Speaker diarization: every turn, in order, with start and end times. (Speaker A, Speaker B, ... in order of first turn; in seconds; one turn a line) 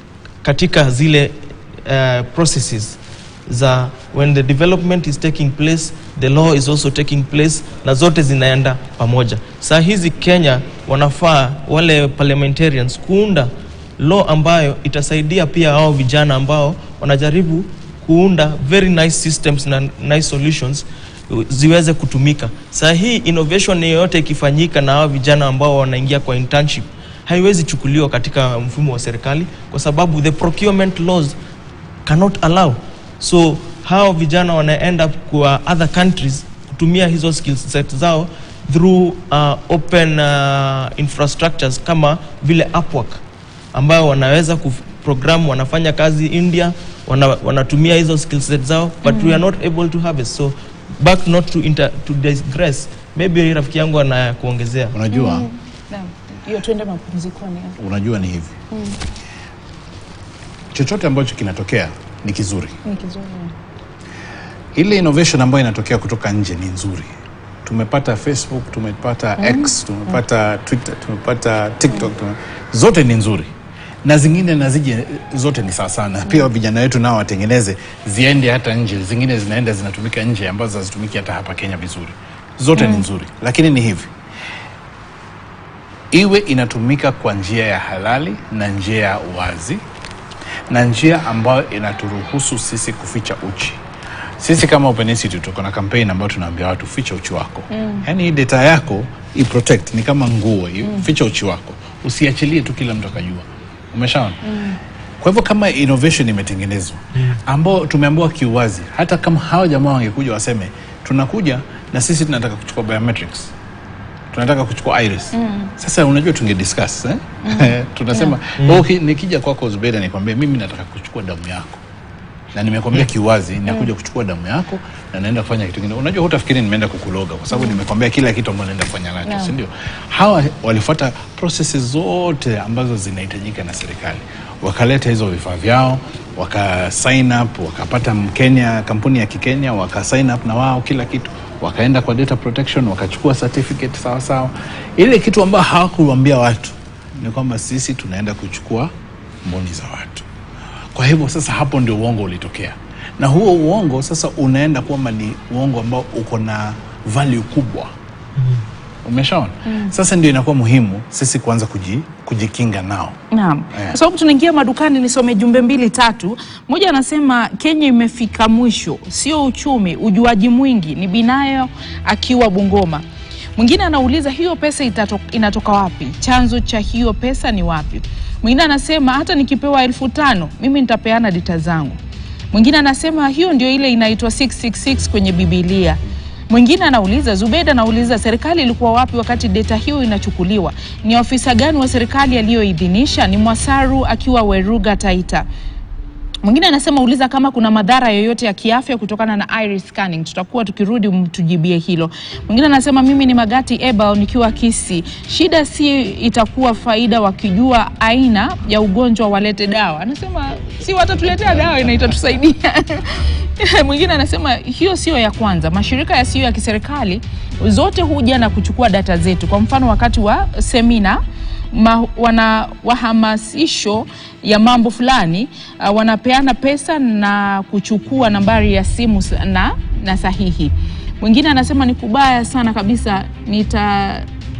Speaker A: 0.4-31.4
Speaker A: 32.0-43.2
Speaker A: 43.7-55.0
Speaker B: 49.0-49.4
Speaker C: 54.9-55.5
Speaker B: 55.1-57.8
Speaker C: 57.8-58.5
Speaker B: 58.7-59.0
Speaker C: 60.7-62.8
Speaker B: 62.8-63.5
Speaker C: 64.7-67.1
Speaker C: 67.6-73.5
Speaker B: 69.4-70.2
Speaker C: 74.0-84.1
Speaker B: 82.8-83.0
Speaker C: 86.1-89.8
Speaker C: 90.7-93.8
Speaker C: 94.4-104.4
Speaker B: 97.7-98.1
Speaker B: 104.4-104.8
Speaker C: 105.2-113.5
Speaker C: 114.3-121.8
Speaker B: 115.3-115.7
Speaker B: 117.4-118.3
Speaker A: 118.6-118.8
Speaker C: 122.5-148.9
Speaker B: 127.5-127.8
Speaker B: 129.2-129.5
Speaker C: 149.4-150.2
Speaker C: 150.9-157.9
Speaker C: 159.0-163.2
Speaker B: 159.7-159.9
Speaker B: 163.3-173.0
Speaker B: 173.6-182.0
Speaker B: 182.5-186.0
Speaker B: 186.5-195.4
Speaker B: 196.4-221.2
Speaker B: 221.7-234.3